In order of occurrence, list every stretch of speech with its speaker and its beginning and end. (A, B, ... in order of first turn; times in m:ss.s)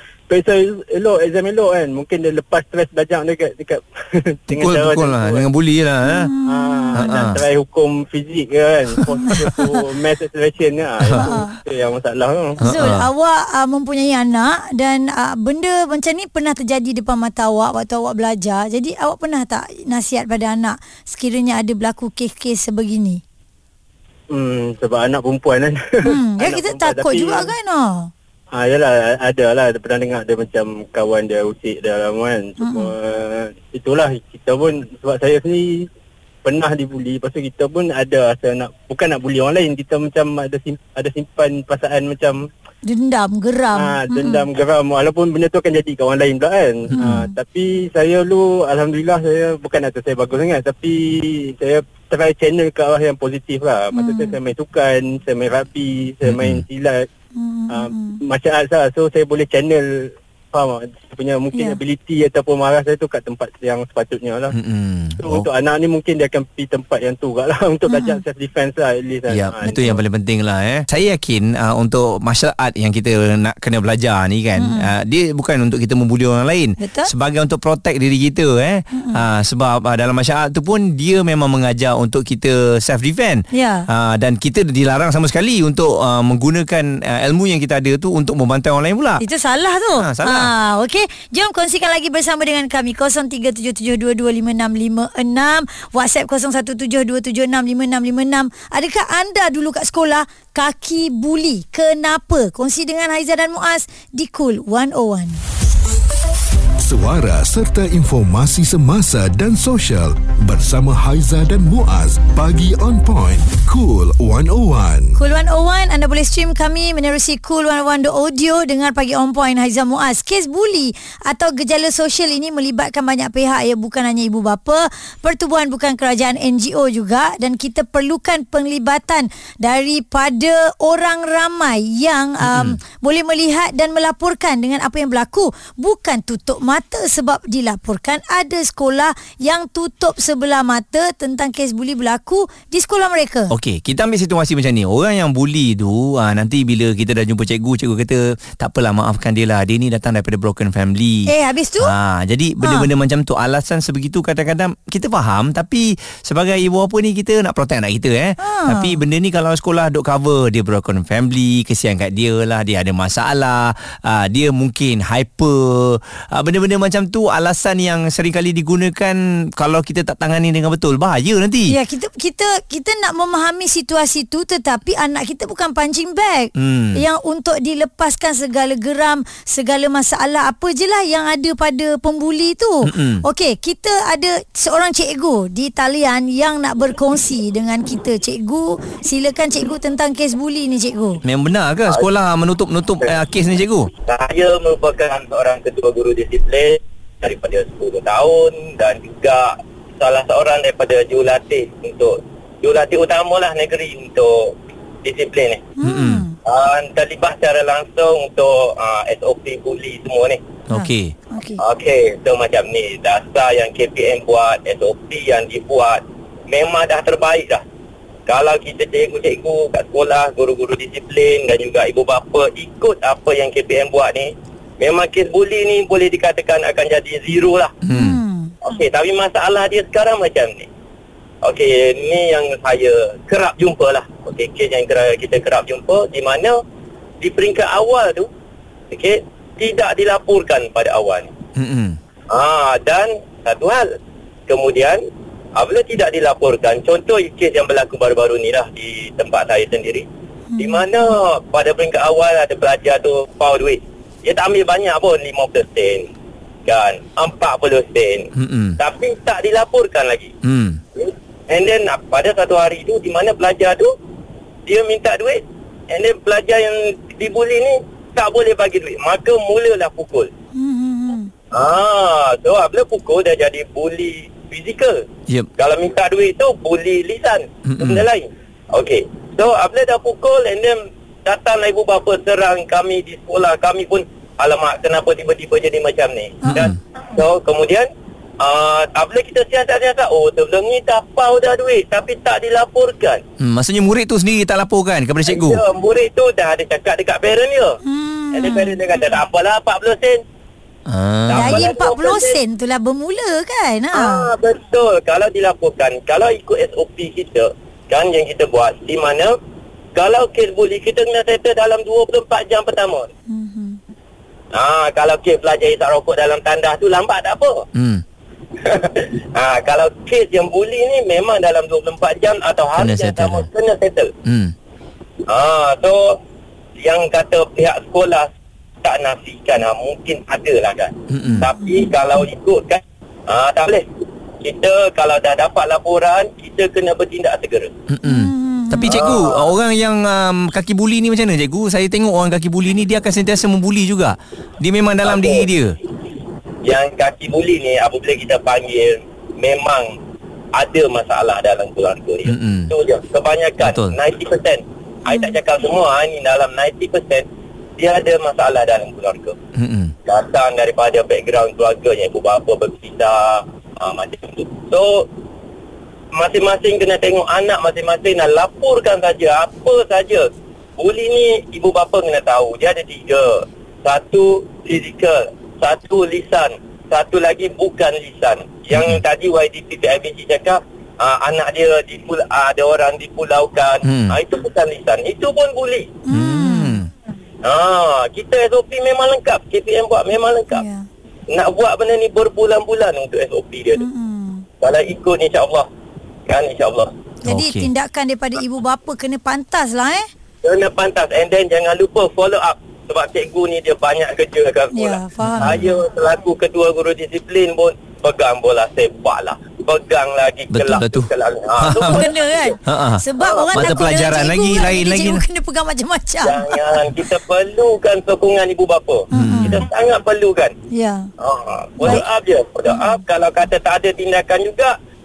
0:00.3-0:05.5 A
0:04.5-0:06.3 B
0:06.0-0:07.2 C
0:06.4-0:12.6 A
0:06.9-0:07.4 B
0:11.2-0:11.6 C
0:12.6-0:23.2 C
0:12.6-0:13.1 B
0:24.3-0:27.5 A
0:26.0-0:28.1 C
0:28.5-0:35.9 A
0:32.6-0:32.9 C
0:36.4-0:42.5 A
0:42.8-0:44.4 C
0:43.7-0:57.1 A
0:47.0-0:47.3 C
0:53.9-0:54.4 C
0:56.2-0:56.6 B
0:57.4-0:58.2 C
0:57.7-1:04.5 A
1:01.5-1:01.8 C
1:04.5-1:05.5 B
1:05.2-1:10.0 A
1:07.9-1:08.2 C
1:09.3-1:29.2 B
1:14.6-1:14.9 C
1:16.8-1:17.1 C
1:18.9-1:19.2 C
1:23.5-1:23.8 C
1:29.2-1:45.4 C
1:30.0-1:30.5 B
1:46.8-1:55.2 D
1:55.2-2:23.5 C
2:12.4-2:12.8 B
2:23.5-2:31.3 B
2:31.3-2:31.9 C
2:31.8-2:51.7 B
2:32.6-2:32.9 C
2:38.4-2:39.0 C
2:51.7-3:11.2 C
2:56.6-2:57.0 B
3:02.8-3:03.2 B
3:11.2-3:13.9 B
3:14.0-3:24.5 E
3:25.0-3:25.6 E
3:25.8-3:26.3 C
3:25.8-3:26.2 B
3:26.4-3:30.4 E
3:30.7-3:31.1 B
3:30.7-3:31.6 C
3:31.6-3:37.6 E
3:38.3-3:47.7 E
3:47.8-3:48.2 B
3:47.9-3:48.5 C
3:48.6-3:50.7 E
3:51.4-3:56.6 E
3:57.2-3:58.3 E
3:58.9-4:01.3 E
4:01.6-4:02.0 B
4:02.3-4:03.9 E
4:04.5-4:05.0 E
4:05.6-4:10.1 E
4:10.5-4:10.8 C
4:10.6-4:16.1 E
4:16.6-4:20.3 E
4:18.4-4:18.8 B
4:20.4-4:20.8 B
4:21.0-4:23.9 E
4:24.7-4:30.3 E
4:30.6-4:31.3 C
4:31.5-4:35.0 E
4:35.6-4:47.9 E
4:37.6-4:38.0 B
4:46.5-4:46.7 B
4:48.4-4:53.2 E
4:53.4-4:55.6 B
4:55.2-4:57.8 E
4:57.8-4:58.7 C
4:58.3-5:00.2 E
5:00.9-5:01.6 B
5:01.3-5:02.4 E
5:01.3-5:04.3 C
5:03.9-5:09.3 E
5:09.9-5:13.1 E
5:13.3-5:13.8 C
5:14.5-5:17.6 E
5:17.7-5:18.0 B
5:18.6-5:24.1 E
5:22.8-5:23.5 B
5:24.2-5:24.5 B
5:25.3-5:26.2 E
5:26.8-5:28.3 E
5:28.8-5:33.8 E
5:31.1-5:31.4 B
5:34.4-5:37.7 E
5:37.9-5:45.8 B
5:38.0-5:39.0 C
5:38.8-5:39.5 E
5:45.0-5:45.5 E
5:46.6-5:49.9 E
5:50.6-5:57.3 E
5:52.3-5:52.7 B
5:53.6-5:54.0 B
5:55.1-5:55.3 C
5:57.8-5:59.4 E
5:59.6-5:59.9 B
6:00.0-6:05.0 E
6:06.1-6:25.9 E
6:18.7-6:19.0 B
6:23.8-6:24.2 B
6:26.1-6:26.8 C
6:26.1-6:26.9 B
6:27.4-6:30.6 E
6:30.5-6:30.9 C
6:31.3-6:33.8 E
6:33.8-6:34.4 C
6:34.6-6:35.7 E
6:36.3-6:36.9 E
6:37.2-6:40.1 C
6:37.2-6:37.7 B
6:40.4-6:52.5 E
6:44.7-6:45.6 C
6:45.2-6:45.7 B
6:50.5-6:52.0 B
6:51.7-6:56.7 C
6:52.6-6:55.2 B
6:53.2-6:53.8 E
6:56.2-7:00.5 E
6:59.1-6:59.6 C
6:59.1-6:59.6 B
7:00.7-7:01.1 C
7:01.2-7:04.8 E
7:02.7-7:03.0 C